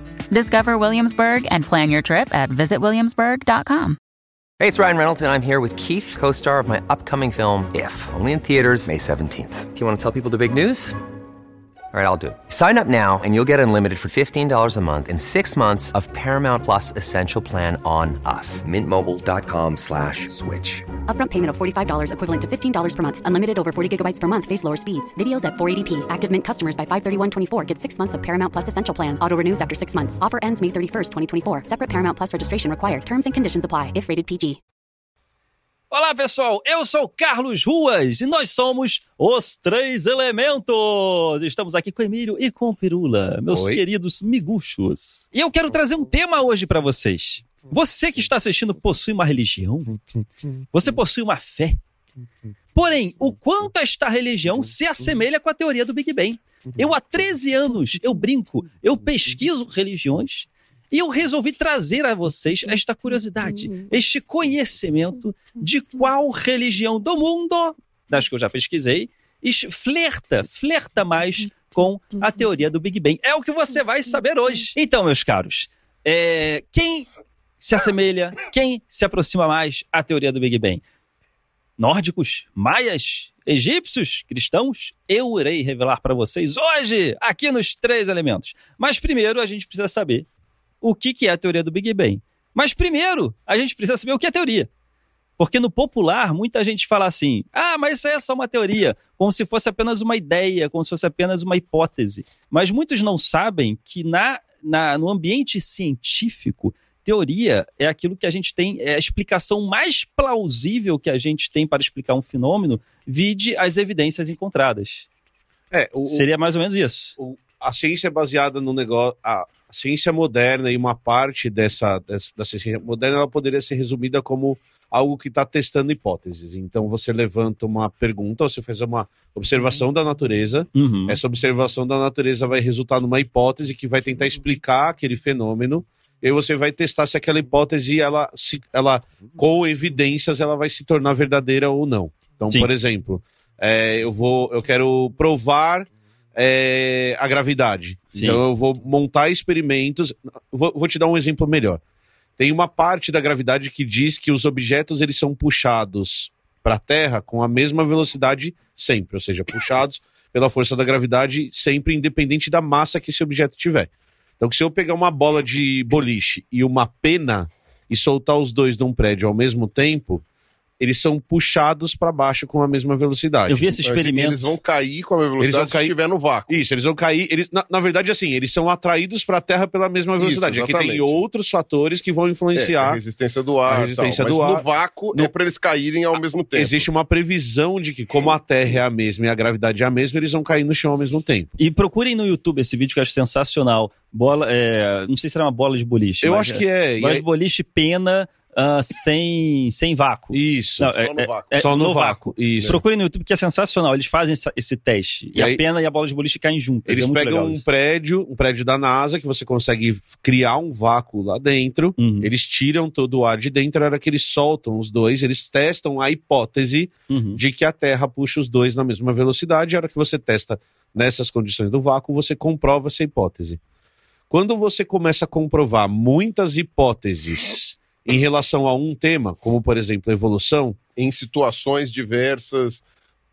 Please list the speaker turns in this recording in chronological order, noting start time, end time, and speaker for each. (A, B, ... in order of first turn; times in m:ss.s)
0:00.3-0:04.0 A
0:04.6-0:11.0 B
0:11.9-0:20.9 B
0:21.1-0:34.6 C
0:35.9-0:50.0 D
0:43.5-0:43.8 E
0:50.7-0:51.8 D
0:52.8-1:17.1 D
1:17.6-1:20.8 D
1:21.8-1:30.3 D
1:30.8-1:34.7 D
1:35.4-1:55.1 D
1:55.7-1:56.2 E
1:56.1-1:57.2 D
1:57.2-2:31.8 E
2:10.8-2:11.2 D
2:28.1-2:28.4 D
2:32.4-2:43.9 E
2:44.4-2:50.2 E
2:50.8-2:53.8 E
2:53.5-2:54.5 D
2:53.8-2:56.6 F
2:55.4-2:55.9 E
2:56.5-3:03.0 E
3:00.2-3:01.2 F
3:02.6-3:06.9 F
3:03.7-3:05.3 E
3:06.6-3:11.5 E
3:11.6-3:27.7 D
3:16.2-3:17.2 E
3:20.3-3:20.9 E
3:21.0-3:21.7 F
3:21.6-3:22.8 E
3:25.4-3:25.6 E
3:26.9-3:43.6 E
3:32.0-3:32.3 D
3:37.1-3:37.4 D
3:44.3-3:50.8 E
3:51.0-3:52.8 F